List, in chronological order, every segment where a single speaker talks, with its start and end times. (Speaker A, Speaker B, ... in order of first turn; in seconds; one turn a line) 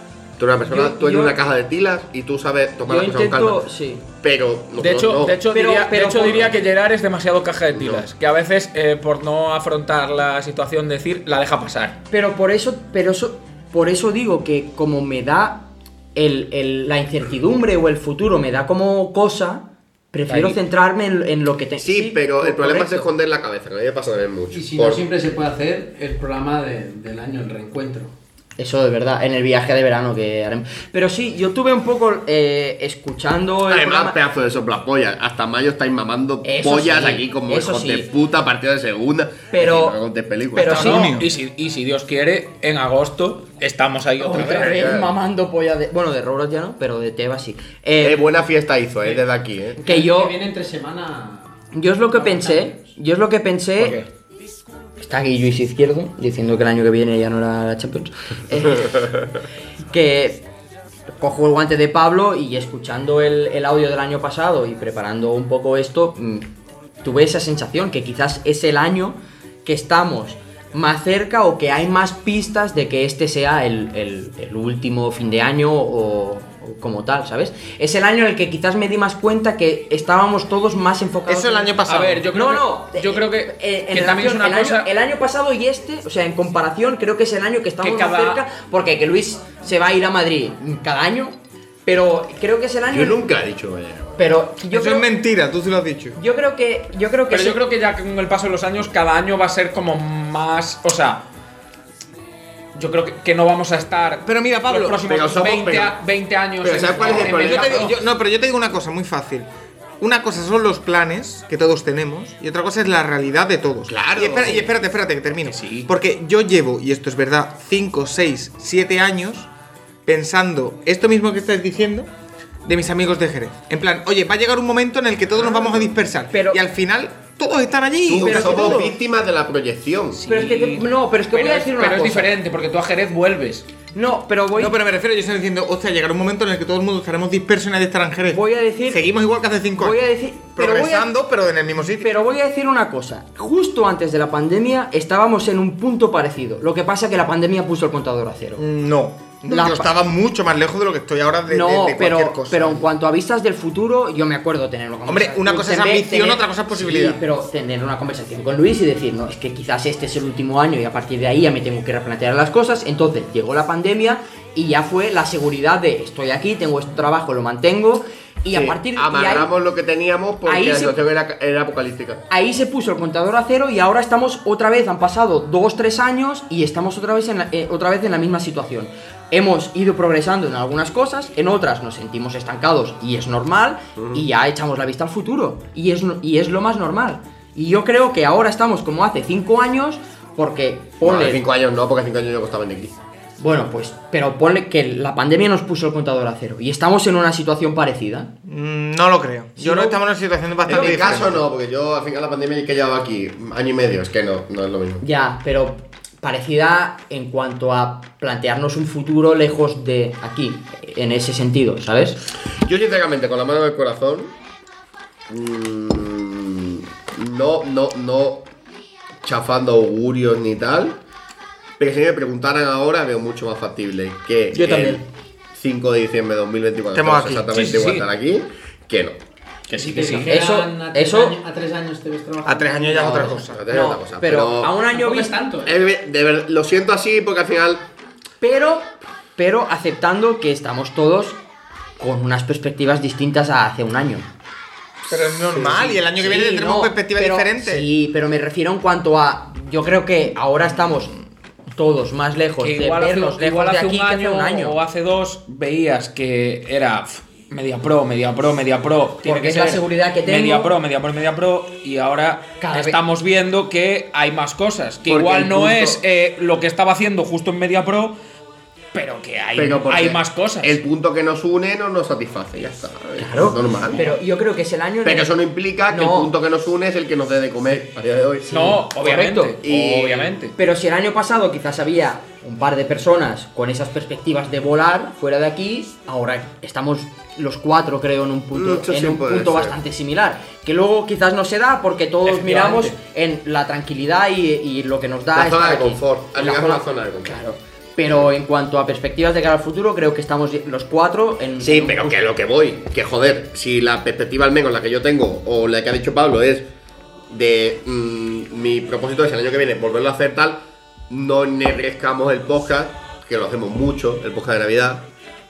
Speaker A: 0.4-3.7
Speaker B: 0.7-1.4
Speaker B: 2.9-4.0
Speaker A: 4.2-5.4
Speaker C: 4.8-12.0
Speaker B: 5.5-6.5
Speaker A: 7.7-8.0
Speaker B: 12.1-23.1
Speaker C: 20.3-20.6
Speaker A: 21.8-25.0
Speaker D: 24.5-28.1
Speaker B: 28.6-34.2
Speaker A: 33.7-41.0
Speaker B: 36.4-38.1
Speaker B: 39.5-40.0
Speaker B: 40.5-41.1
Speaker C: 40.6-44.8
Speaker E: 40.7-41.3
Speaker B: 44.2-48.2
Speaker A: 44.3-45.1
Speaker A: 48.0-49.8
Speaker B: 49.8-50.4
Speaker D: 49.8-52.9
Speaker B: 51.7-54.0
Speaker C: 53.8-54.0
Speaker B: 55.0-59.0
Speaker B: 59.8-60.5
Speaker B: 61.2-66.5
Speaker B: 67.0-93.2
Speaker E: 81.3-82.2
Speaker C: 81.8-84.9
Speaker C: 87.8-88.4
Speaker A: 92.9-94.1
Speaker B: 94.2-95.1
Speaker E: 94.7-96.2
Speaker B: 96.2-97.6
Speaker C: 97.3-101.2
Speaker C: 102.7-108.0
Speaker E: 104.2-105.0
Speaker A: 105.0-106.0
Speaker A: 106.6-107.9
Speaker E: 107.2-109.5
Speaker E: 110.0-119.5
Speaker A: 114.0-114.6
Speaker C: 115.5-115.9
Speaker E: 120.0-122.1
Speaker E: 122.7-128.9
Speaker B: 126.3-126.6
Speaker A: 128.1-130.2
Speaker B: 128.2-128.9
Speaker C: 130.2-133.7
Speaker B: 130.3-132.3
Speaker B: 133.9-134.7
Speaker E: 134.5-140.0
Speaker B: 138.3-139.0
Speaker B: 139.7-141.1
Speaker E: 140.6-142.2
Speaker B: 142.0-148.6
Speaker E: 148.6-152.9
Speaker B: 149.5-149.9
Speaker B: 151.5-169.5
Speaker E: 155.1-157.2
Speaker A: 168.5-172.2
Speaker B: 170.4-170.9
Speaker B: 172.3-191.4
Speaker A: 184.0-184.2
Speaker A: 191.0-192.9
Speaker B: 193.4-198.3
Speaker E: 198.4-201.4
Speaker B: 199.6-200.0
Speaker B: 200.7-201.2
Speaker A: 200.7-205.0
Speaker B: 205.0-212.2
Speaker A: 212.6-214.3
Speaker A: 215.3-218.5
Speaker A: 219.2-221.0
Speaker A: 221.8-225.0
Speaker C: 224.6-224.9
Speaker E: 224.6-224.9
Speaker A: 225.5-229.2
Speaker E: 226.9-227.5
Speaker C: 227.5-228.1
Speaker D: 229.7-233.4
Speaker A: 229.7-230.2
Speaker C: 229.7-230.3
Speaker B: 230.3-231.4
Speaker E: 232.4-233.6
Speaker A: 233.0-234.8
Speaker B: 233.0-235.3
Speaker D: 234.9-235.7
Speaker A: 235.6-237.9
Speaker B: 238.4-241.4
Speaker B: 242.0-244.3
Speaker E: 245.1-247.9
Speaker B: 245.5-251.1
Speaker B: 251.8-254.8
Speaker C: 252.6-268.1
Speaker B: 259.2-260.7
Speaker B: 262.6-263.0
Speaker B: 265.1-266.0
Speaker C: 268.9-270.8
Speaker A: 269.6-274.1
Speaker B: 273.2-275.4
Speaker A: 275.0-278.8
Speaker B: 275.9-276.3
Speaker B: 278.5-279.6
Speaker C: 278.5-280.5
Speaker A: 279.6-280.4
Speaker B: 280.6-302.2
Speaker A: 288.5-289.8
Speaker C: 292.2-292.9
Speaker A: 295.3-297.4
Speaker A: 301.6-306.7
Speaker A: 307.3-315.1